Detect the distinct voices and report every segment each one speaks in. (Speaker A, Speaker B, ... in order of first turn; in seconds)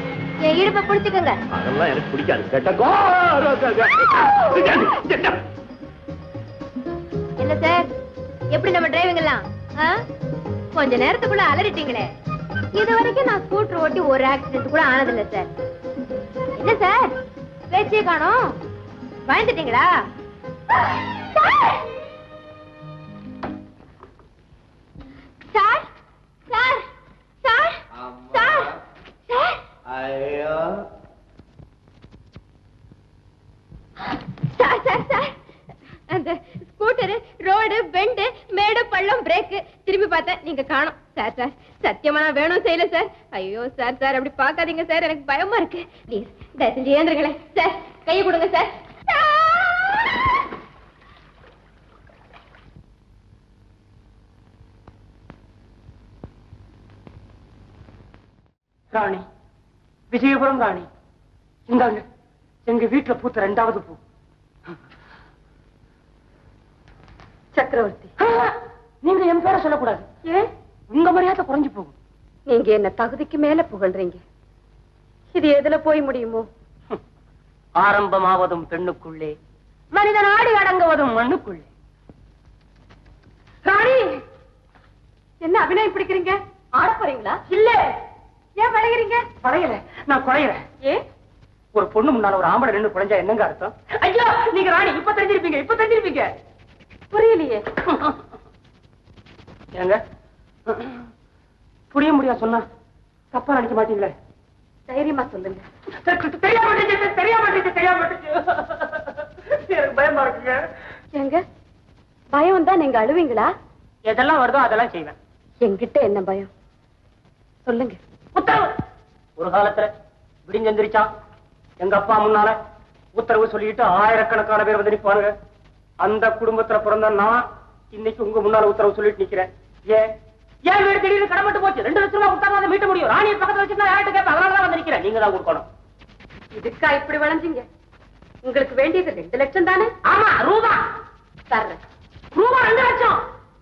Speaker A: 0.4-1.4, 7.4-7.9, 8.5-10.0, 10.7-12.1, 12.7-15.5, 16.6-17.1, 17.7-18.6, 19.2-19.9, 21.4-21.8, 25.5-25.9, 26.5-26.8, 27.4-27.8, 28.3-28.7, 29.3-29.6, 34.1-35.3, 36.1-50.1
Speaker B: 1.5-5.4, 28.1-28.4, 29.9-30.6
Speaker C: 58.9-59.2, 60.1-60.9, 61.7-62.0, 62.6-64.0, 68.2-70.0, 70.9-71.9, 77.8-79.3, 79.9-81.7, 83.7-84.0, 87.5-87.8, 89.4-90.6, 91.7-96.3, 100.7-101.0, 101.9-102.7, 103.3-104.1, 106.0-109.0, 109.6-110.7, 114.1-115.1, 118.3-118.6, 119.4-119.9, 120.5-121.1, 121.8-122.5, 123.1-125.3, 126.0-130.1, 130.7-135.7, 140.0-140.8, 142.3-143.2
Speaker D: 67.5-68.1, 72.5-74.2, 75.3-76.5, 85.4-87.4, 88.6-89.2, 97.1-97.6, 104.9-105.6, 111.1-111.4, 112.3-113.5, 115.6-116.5, 117.6-118.0, 136.5-137.7, 138.4-139.9, 141.5-141.8